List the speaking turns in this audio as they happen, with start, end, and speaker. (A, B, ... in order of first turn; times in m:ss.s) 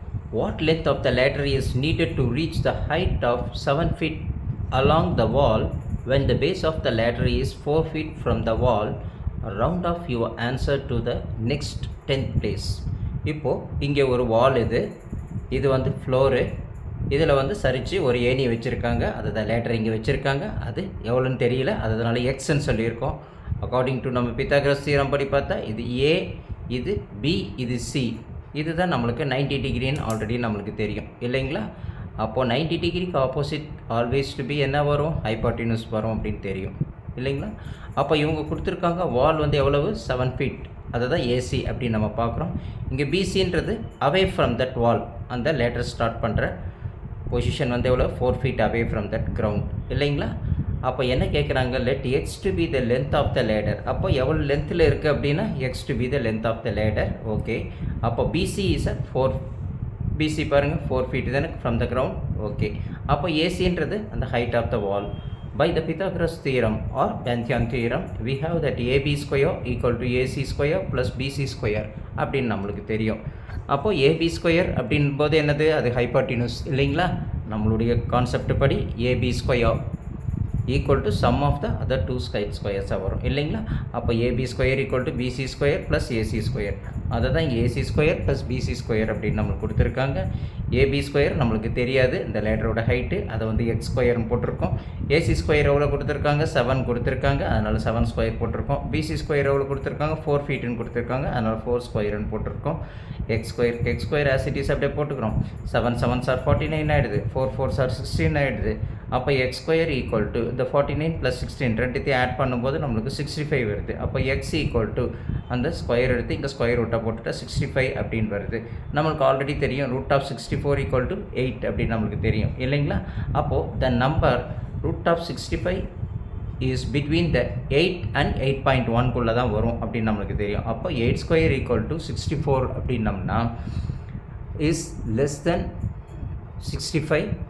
0:00.3-0:14.8 A
0:15.5-0:16.5 A
0:17.1-0:31.7 A
0:32.2-0:46.5 A
0:47.3-0:50.3 A
0:50.8-0:59.4 A
1:00.1-1:19.8 A
1:20.7-1:42.8 A
1:43.3-2:05.8 A
2:06.6-2:13.5 A
2:14.6-2:15.7 A
2:16.6-2:17.3 A